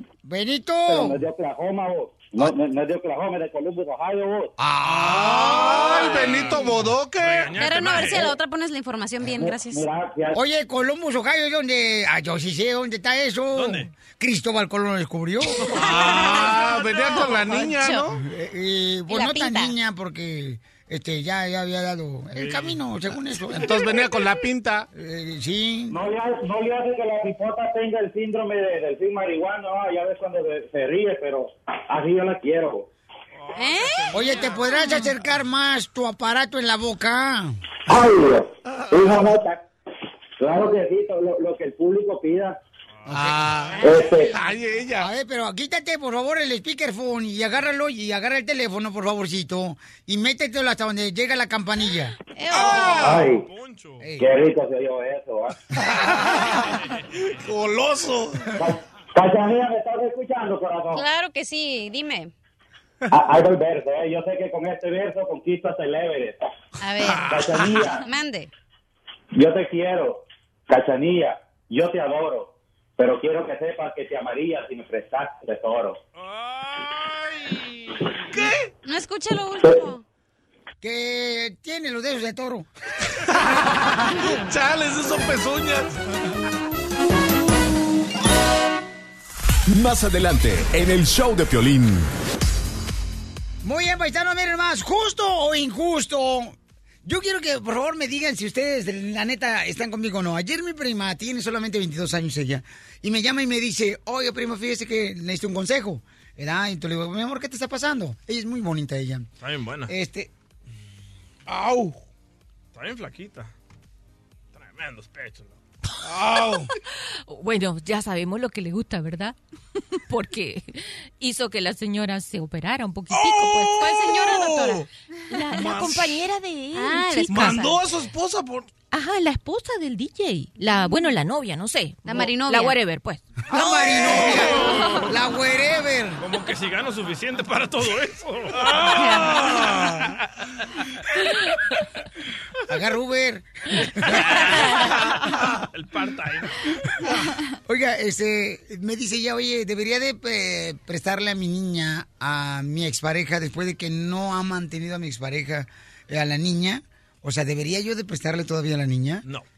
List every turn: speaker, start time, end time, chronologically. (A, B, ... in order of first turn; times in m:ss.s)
0:00.2-0:01.2 A
0:00.8-0:04.5 B
0:04.6-0:08.0 C
0:04.8-0:05.9 A
0:05.9-0:06.7 D
0:07.2-0:08.3 E
0:07.6-0:09.8 D
0:09.2-0:10.4 B
0:10.3-0:15.7 A
0:13.6-0:13.9 E
0:15.7-0:18.2 C
0:15.8-0:18.1 D
0:18.1-0:23.9 A
0:19.1-0:19.7 D
0:22.4-0:22.8 E
0:23.5-0:24.8 C
0:24.9-0:26.0 A
0:25.9-0:32.9 B
0:33.3-0:34.6 E
0:33.6-0:34.3 D
0:34.1-0:37.6 A
0:37.9-0:39.6 B
0:40.4-0:42.6 B
0:43.1-0:45.1 C
0:43.8-0:44.3 B
0:45.0-0:52.1 A
0:52.4-0:53.2 D
0:52.5-0:53.3 C
0:53.0-0:53.4 B
0:53.2-0:54.1 E
0:54.0-0:54.3 A
0:54.2-0:55.6 B
0:55.8-0:56.8 C
0:56.7-0:57.0 E
0:57.3-0:58.6 C
0:58.6-1:01.0 B
1:00.9-1:02.3 D
1:03.1-1:06.4 B
1:06.8-1:08.5 D
1:07.0-1:07.9 C
1:07.3-1:08.0 B
1:09.3-1:16.0 B
1:16.1-1:18.1 E
1:18.3-1:18.7 C
1:18.8-1:20.0 D
1:20.8-1:22.7 A
1:23.3-1:26.1 C
1:29.7-1:32.1 F
1:33.6-1:49.3 A
1:49.4-1:49.9 E
1:49.9-1:50.3 A
1:51.5-1:52.0 C
1:52.7-1:53.5 E
1:54.5-1:55.6 E
1:56.0-1:56.7 C
1:57.3-1:59.4 G
2:00.1-2:03.7 G
2:03.1-2:04.8 C
2:03.4-2:04.8 D
2:05.3-2:07.2 G
2:05.5-2:06.2 C
2:06.7-2:07.8 D
2:07.3-2:08.7 C
2:08.9-2:13.2 G
2:12.0-2:12.8 D
2:13.5-2:16.2 A
2:16.2-2:19.2 E
2:18.7-2:19.8 C
2:22.7-2:24.3 A
2:24.1-2:25.2 E
2:25.7-2:26.6 E
2:27.6-2:39.2 A